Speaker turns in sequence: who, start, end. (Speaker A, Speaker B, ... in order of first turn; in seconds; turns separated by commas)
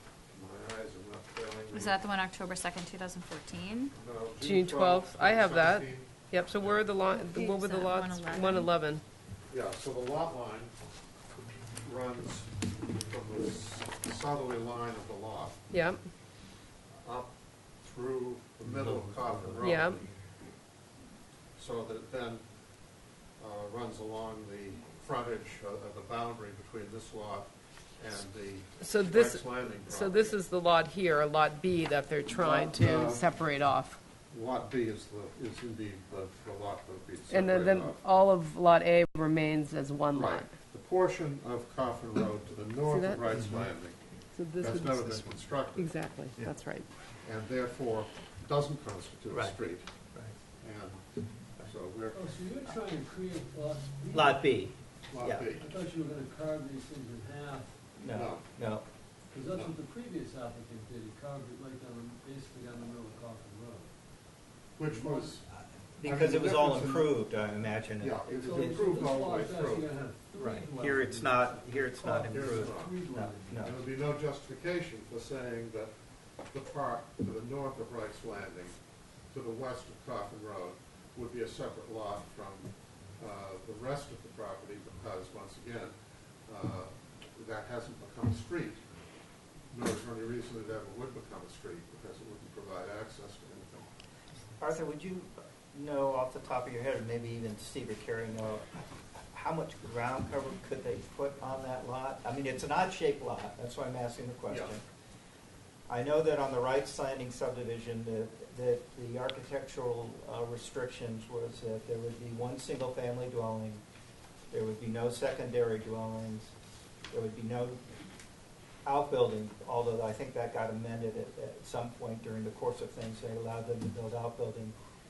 Speaker A: 0.3-2.0, Speaker B: 1.7-3.9, Speaker A: 3.9-6.8, Speaker C: 4.4-9.0, Speaker B: 7.1-8.7, Speaker A: 9.5-10.7, Speaker A: 11.8-15.6, Speaker C: 15.7-16.0, Speaker A: 17.0-20.1, Speaker C: 19.6-20.0, Speaker A: 21.6-22.5, Speaker A: 23.4-30.4, Speaker C: 28.8-34.0, Speaker A: 32.3-33.3, Speaker A: 34.3-38.0, Speaker C: 37.3-40.5, Speaker A: 40.1-44.0, Speaker C: 42.9-43.2, Speaker C: 44.4-46.9, Speaker A: 44.6-46.0, Speaker A: 47.2-49.9, Speaker D: 49.3-49.6, Speaker A: 50.6-52.2, Speaker E: 52.1-54.2, Speaker D: 54.1-55.5, Speaker A: 55.1-55.7, Speaker E: 55.6-57.7, Speaker D: 58.0-58.8, Speaker A: 58.0-58.4, Speaker E: 59.3-63.8, Speaker A: 59.5-59.8, Speaker A: 64.8-65.4, Speaker E: 64.9-65.3, Speaker D: 66.0-68.8, Speaker A: 66.0-67.1, Speaker A: 68.0-69.9, Speaker E: 68.4-73.5, Speaker D: 70.3-73.8, Speaker A: 72.3-73.0, Speaker A: 73.6-75.9, Speaker A: 76.5-85.9, Speaker A: 86.5-88.8, Speaker A: 89.7-93.9, Speaker D: 94.6-104.8, Speaker A: 104.5-104.7, Speaker D: 105.9-113.8, Speaker D: 114.5-116.5, Speaker D: 117.1-117.8, Speaker D: 118.8-124.7